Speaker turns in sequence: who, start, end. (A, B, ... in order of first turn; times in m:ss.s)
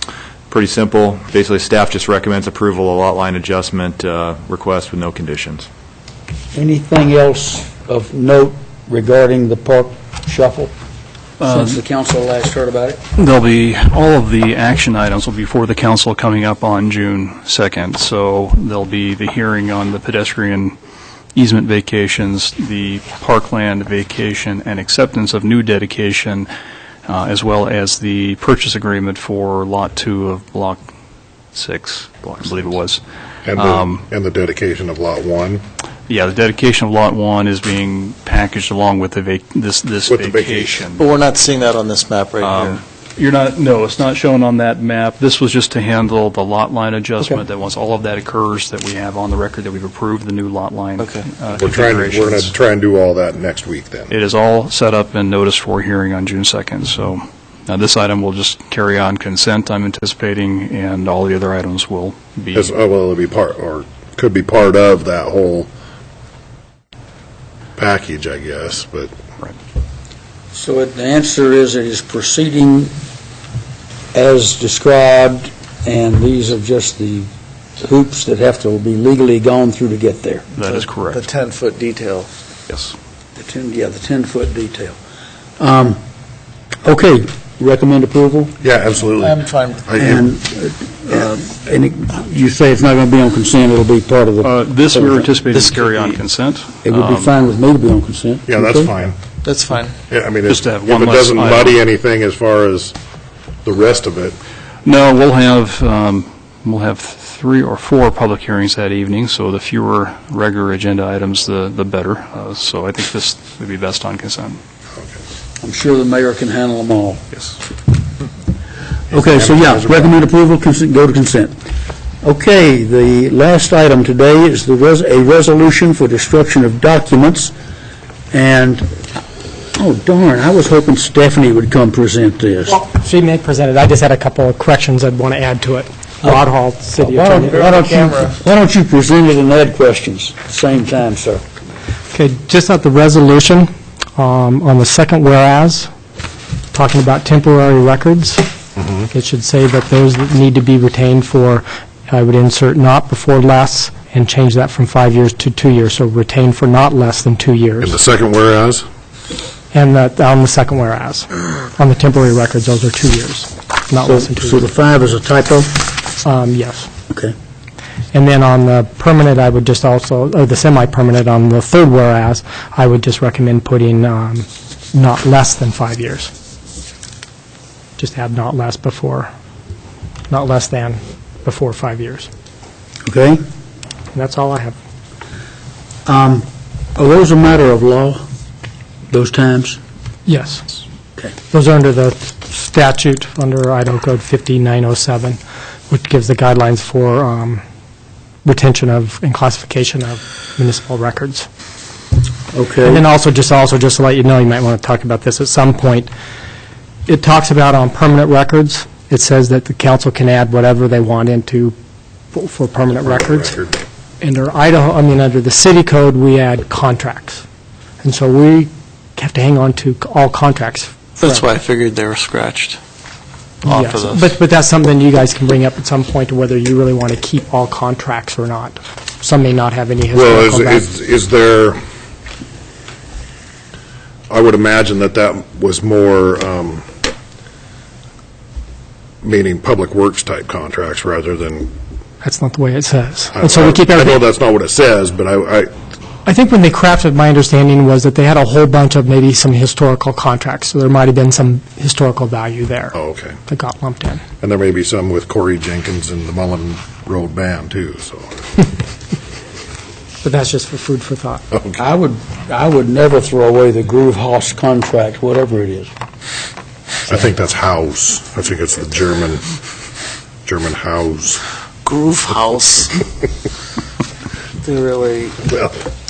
0:00.5-0:05.7 A
0:06.5-0:10.7 B
0:11.4-0:11.8 C
0:11.4-0:13.0 B
0:13.2-0:20.8 C
0:21.4-0:26.5 C
0:27.1-0:30.8 C
0:31.5-0:33.0 C
0:33.4-0:35.6 D
0:33.6-0:34.0 C
0:36.1-0:41.0 C
0:40.1-0:40.8 D
0:40.9-0:42.8 E
0:42.4-0:52.5 C
0:51.0-0:51.3 E
0:51.6-0:54.1 D
0:54.1-1:02.8 C
1:02.5-1:05.7 D
1:07.8-1:09.1 D
1:10.5-1:12.9 B
1:14.1-1:20.5 B
1:20.5-1:21.3 C
1:20.6-1:22.3 E
1:22.7-1:23.0 C
1:23.4-1:25.0 B
1:25.6-1:26.0 B
1:26.8-1:28.6 B
1:28.6-1:30.2 D
1:29.2-1:30.2 E
1:30.0-1:35.3 B
1:34.4-1:37.3 C
1:35.5-1:36.2 E
1:36.8-1:38.9 B
1:38.5-1:39.2 D
1:39.4-1:40.0 E
1:40.1-1:43.0 D
1:40.5-1:41.8 C
1:43.6-1:44.4 D
1:44.8-1:54.6 C
1:55.6-1:57.2 B
1:59.1-2:01.6 B
1:59.1-2:00.2 D
2:02.2-2:07.6 B
2:08.3-2:09.0 B
2:09.8-2:12.8 B
2:12.8-2:17.7 F
2:17.0-2:21.4 B
2:17.4-2:18.4 E
2:22.1-2:25.9 F
2:26.7-2:28.5 F
2:29.1-2:38.0 F
2:37.8-2:38.8 D
2:39.7-2:44.7 F
2:44.0-2:45.9 B
2:46.2-2:46.9 F
2:48.1-2:56.3 F
2:58.0-2:59.3 F
3:00.3-3:02.3 F
3:03.0-3:03.4 B
3:04.1-3:04.8 F
3:06.1-3:08.2 B
3:09.1-3:09.8 B
3:10.3-3:10.6 F
3:11.5-3:17.6 F
3:18.4-3:21.5 F
3:22.5-3:23.0 B
3:22.8-3:26.1 F
3:27.1-3:31.8 F
3:32.3-3:33.6 F
3:33.2-3:33.7 D
3:34.2-3:37.4 F
3:38.0-3:41.4 F
3:41.2-3:42.8 E
3:43.6-3:44.4 E
3:43.6-3:50.9 F
3:50.1-3:51.8 D
3:54.3-3:56.9 D
3:59.2-4:01.7 D
4:02.2-4:04.2 F
4:03.4-4:05.7 D
4:06.2-4:14.2 F
4:12.9-4:13.4 D
4:14.4-4:18.3 D
4:20.2-4:21.4 F
4:21.5-4:21.8 D
4:21.8-4:25.9 B
4:27.1-4:29.4 D
4:30.4-4:31.4 D
4:31.9-4:32.9 E
4:34.6-4:35.4 E
4:35.5-4:35.7 D